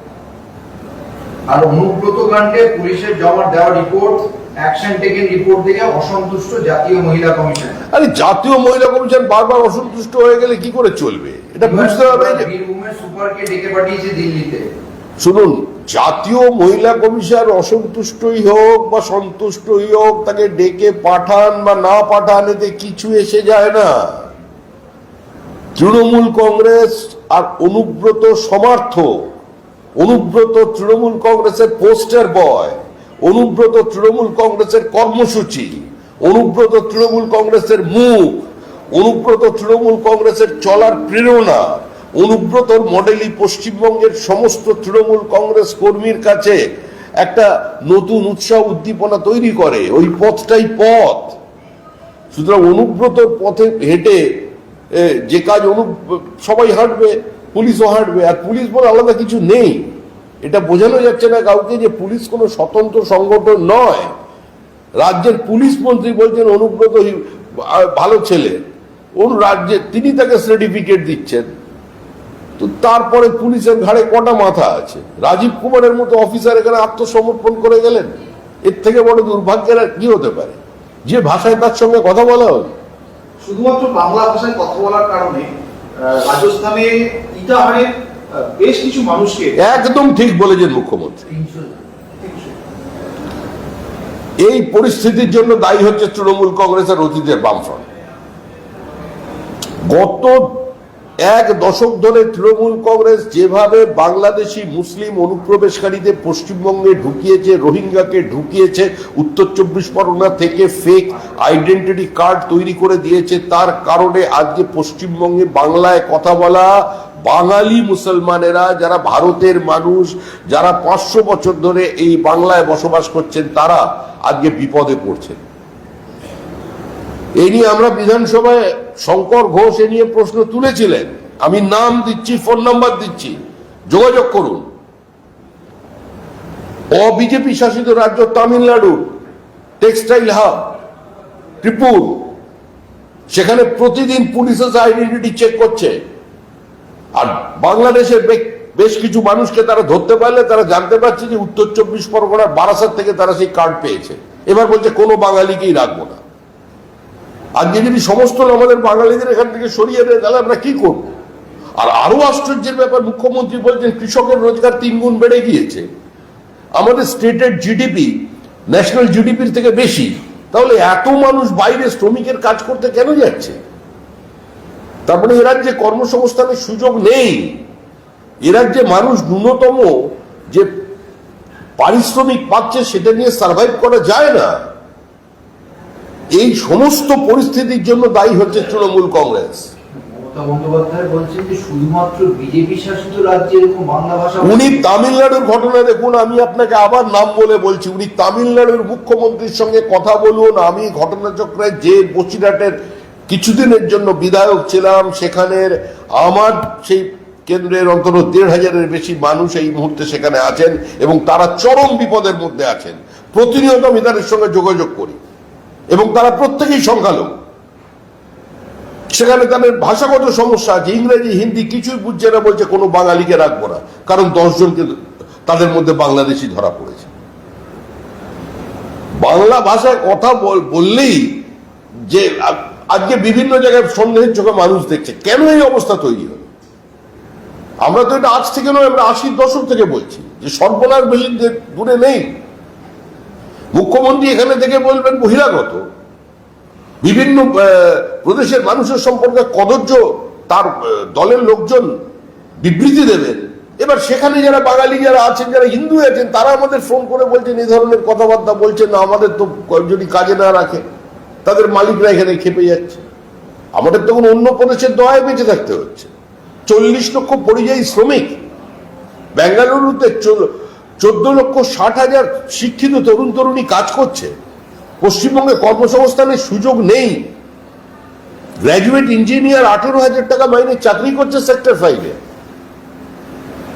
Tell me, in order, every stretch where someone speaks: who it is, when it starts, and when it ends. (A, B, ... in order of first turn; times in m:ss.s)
0:01.5-0:07.8 A
0:07.9-0:12.5 B
0:11.6-0:14.7 A
0:15.2-0:24.3 B
0:25.8-0:29.3 B
0:30.0-0:46.6 B
0:47.2-0:51.4 B
0:52.3-1:04.2 B
1:05.0-1:08.6 B
1:09.2-1:11.5 B
1:12.6-1:22.7 B
1:23.4-1:29.6 C
1:29.6-1:31.3 B
1:31.3-1:31.8 A
1:32.2-1:32.5 C
1:34.4-1:37.8 B
1:39.8-1:40.7 B
1:41.2-2:05.4 B
2:07.4-2:14.7 B
2:16.9-2:19.1 B
2:19.8-2:20.7 B
2:21.6-2:22.3 B
2:23.3-2:26.0 B
2:27.2-2:36.2 B
2:37.6-2:41.1 B
2:41.8-2:45.9 B
2:46.8-2:53.6 B
2:55.1-2:57.6 B
2:58.4-3:00.7 B
3:01.8-3:04.6 B
3:06.4-3:09.7 B
3:10.0-3:14.8 A
3:14.4-3:22.8 B
3:23.3-3:35.2 B
3:35.9-3:37.4 B
3:39.1-3:47.1 B
3:49.2-3:51.5 B
3:52.1-3:56.5 B
3:57.8-4:02.3 B
4:03.7-4:05.8 B
4:07.0-4:12.0 B
4:12.6-4:20.8 B
4:21.4-4:23.0 B
4:23.8-4:26.1 B
4:26.7-4:28.4 B
4:29.4-4:34.3 B
4:35.0-4:37.3 B
4:38.6-4:42.2 B